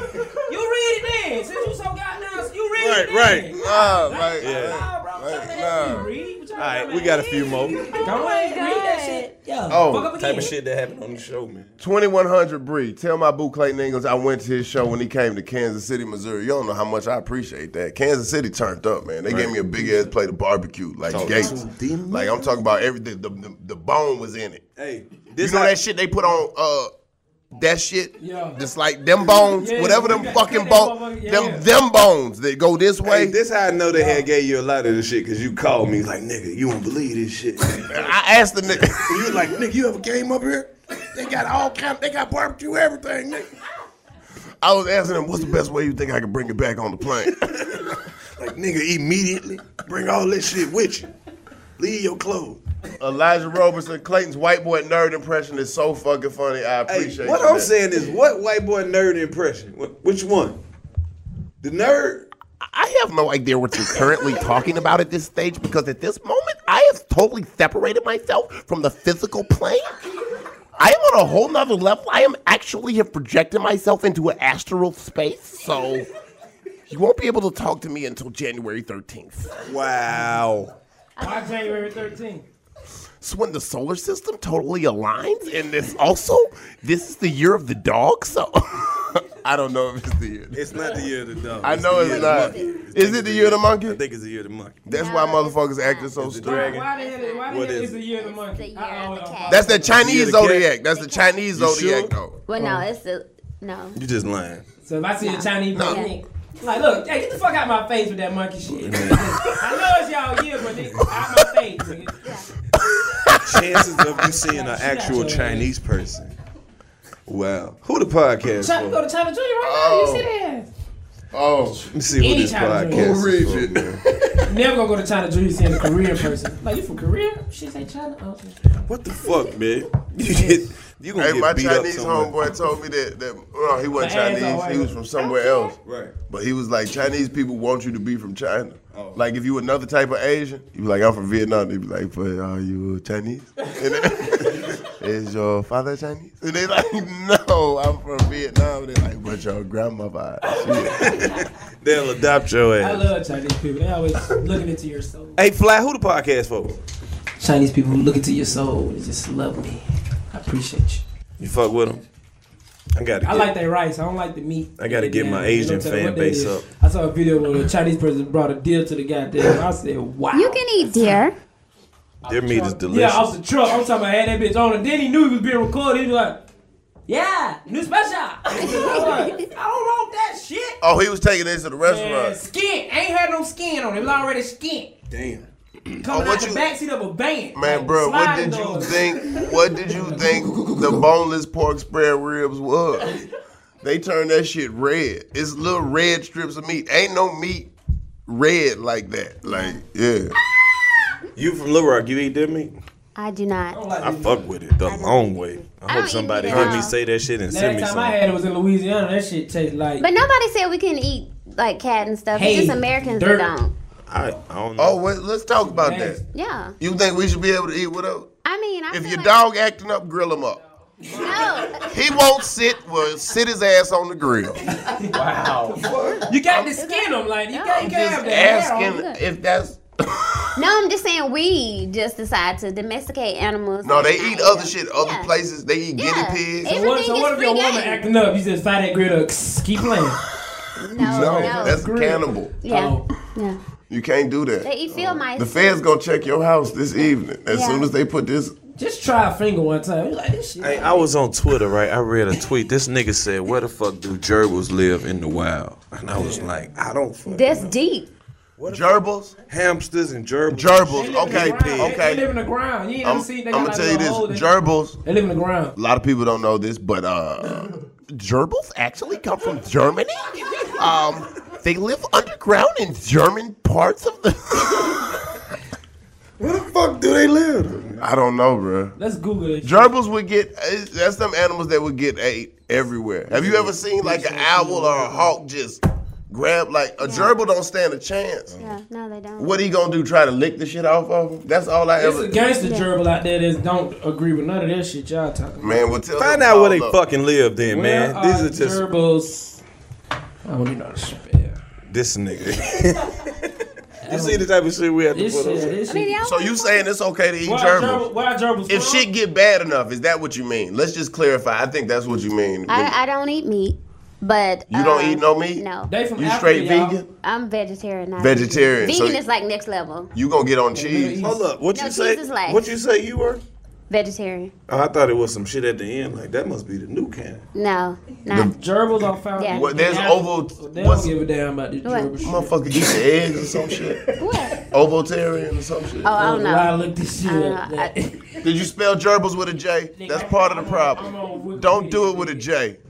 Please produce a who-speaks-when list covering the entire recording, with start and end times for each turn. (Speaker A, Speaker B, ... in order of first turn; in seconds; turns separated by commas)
Speaker A: 0.5-10.5, Speaker B: 2.8-3.5, Speaker C: 3.5-6.1, Speaker B: 4.4-4.8, Speaker B: 6.6-8.0, Speaker D: 7.9-9.3, Speaker C: 9.7-10.1, Speaker B: 10.2-11.7, Speaker C: 11.8-24.6, Speaker B: 19.3-19.9, Speaker B: 21.1-22.6, Speaker B: 24.8-25.7, Speaker C: 25.4-26.9, Speaker C: 27.5-33.4, Speaker A: 28.2-28.6, Speaker A: 29.4-31.6, Speaker B: 33.0-38.1, Speaker A: 33.9-34.2, Speaker C: 37.9-39.4, Speaker B: 38.8-43.5, Speaker C: 44.6-47.4, Speaker B: 47.2-51.1, Speaker B: 51.8-52.6, Speaker C: 53.0-57.7, Speaker B: 56.9-60.6, Speaker B: 61.6-62.3, Speaker C: 62.6-70.0, Speaker C: 70.8-76.1, Speaker C: 76.9-79.5, Speaker B: 79.6-80.7, Speaker D: 81.2-81.8, Speaker A: 81.2-82.4, Speaker C: 83.2-90.7, Speaker B: 90.5-94.8, Speaker C: 91.6-94.0, Speaker D: 92.1-92.8, Speaker C: 94.8-96.7, Speaker D: 94.9-96.1, Speaker B: 96.2-96.9, Speaker A: 96.4-100.0, Speaker D: 96.8-97.5, Speaker B: 97.5-98.0, Speaker D: 98.2-99.6, Speaker C: 99.5-102.4, Speaker B: 99.9-100.7, Speaker D: 100.9-101.4, Speaker B: 101.5-102.1, Speaker D: 102.5-104.0, Speaker A: 102.5-102.8, Speaker B: 103.9-104.6, Speaker A: 104.8-112.2, Speaker D: 105.2-106.1, Speaker C: 105.7-106.0, Speaker B: 108.7-109.5, Speaker C: 113.0-113.3, Speaker B: 113.3-116.3, Speaker A: 114.1-115.7, Speaker B: 117.3-119.0, Speaker A: 118.5-120.7, Speaker C: 119.6-120.3, Speaker C: 121.3-121.8, Speaker B: 121.9-124.0, Speaker A: 122.1-123.2, Speaker C: 122.9-124.0, Speaker A: 124.4-128.8, Speaker B: 128.8-132.4, Speaker A: 130.2-130.7, Speaker C: 131.1-151.2, Speaker A: 133.9-134.9, Speaker D: 135.2-135.7, Speaker B: 135.8-136.1, Speaker B: 138.9-139.2, Speaker B: 150.9-153.1, Speaker A: 152.8-155.4, Speaker B: 155.3-156.8, Speaker A: 157.4-161.0, Speaker B: 161.4-162.0, Speaker B: 162.9-163.5, Speaker A: 163.2-170.6, Speaker B: 164.8-166.7, Speaker D: 170.3-171.3, Speaker B: 172.2-173.3, Speaker A: 172.4-176.4, Speaker A: 177.1-180.8, Speaker C: 180.8-182.4, Speaker A: 181.8-184.9, Speaker B: 185.1-185.4, Speaker A: 186.0-189.4, Speaker C: 186.1-186.6, Speaker C: 187.5-193.2, Speaker C: 193.8-197.7, Speaker C: 198.3-200.3, Speaker D: 199.4-199.8, Speaker B: 201.3-202.7, Speaker D: 203.1-203.8, Speaker A: 203.7-204.5, Speaker B: 204.0-208.2, Speaker D: 204.8-206.9, Speaker C: 206.5-206.8, Speaker A: 207.5-210.0, Speaker D: 210.0-213.7, Speaker A: 212.3-213.5, Speaker B: 214.1-215.0, Speaker C: 214.8-216.2, Speaker A: 215.6-216.2, Speaker D: 216.3-216.8, Speaker C: 216.8-218.3, Speaker D: 218.4-219.4, Speaker C: 218.9-220.6, Speaker D: 221.1-221.9, Speaker C: 221.8-224.7, Speaker A: 225.7-229.0, Speaker C: 226.4-226.7, Speaker D: 226.8-227.9, Speaker C: 227.7-230.5, Speaker D: 228.8-229.2, Speaker D: 230.6-235.3, Speaker C: 233.8-236.7, Speaker D: 235.9-238.0, Speaker A: 236.6-240.2, Speaker D: 240.8-241.8, Speaker C: 240.9-242.6, Speaker A: 240.9-243.0, Speaker D: 242.6-243.6, Speaker C: 243.9-248.5, Speaker D: 244.6-245.8, Speaker D: 247.5-247.9, Speaker A: 248.8-251.1, Speaker B: 250.6-257.8, Speaker A: 256.1-256.5, Speaker D: 257.3-258.1, Speaker B: 258.6-262.0, Speaker C: 258.7-259.3, Speaker C: 260.5-262.3, Speaker A: 260.9-264.5, Speaker C: 263.0-265.0, Speaker A: 265.0-265.7, Speaker C: 265.8-275.4, Speaker B: 276.4-278.1, Speaker C: 278.0-279.0, Speaker A: 279.0-279.9, Speaker C: 279.6-288.5, Speaker B: 283.3-283.8, Speaker A: 283.9-285.3, Speaker D: 287.0-287.3, Speaker D: 288.6-289.6, Speaker C: 289.4-292.4, Speaker A: 292.0-295.8, Speaker D: 292.6-292.9, Speaker C: 295.6-297.0, Speaker B: 296.1-298.8, Speaker A: 297.7-299.6, Speaker A: 300.4-301.6, Speaker B: 301.9-303.5, Speaker A: 304.1-304.5, Speaker B: 304.1-305.8, Speaker A: 305.1-306.2, Speaker D: 305.9-306.8, Speaker C: 306.2-308.1, Speaker A: 307.4-309.1, Speaker C: 308.7-312.9, Speaker D: 312.7-315.9, Speaker C: 314.7-317.0, Speaker A: 315.9-317.0, Speaker D: 317.2-320.1, Speaker C: 318.2-319.2, Speaker C: 320.1-321.2, Speaker A: 320.7-321.4, Speaker B: 321.2-323.4, Speaker D: 321.7-322.7, Speaker D: 323.9-324.5, Speaker B: 324.7-327.4, Speaker D: 327.5-328.5, Speaker A: 328.5-333.0, Speaker D: 329.4-329.6, Speaker C: 329.5-331.1, Speaker D: 331.8-332.1, Speaker C: 332.2-334.0, Speaker D: 334.2-334.6, Speaker C: 334.7-336.1, Speaker D: 336.0-336.7, Speaker A: 336.1-338.5, Speaker D: 337.2-337.9, Speaker C: 338.4-342.8, Speaker A: 339.9-342.4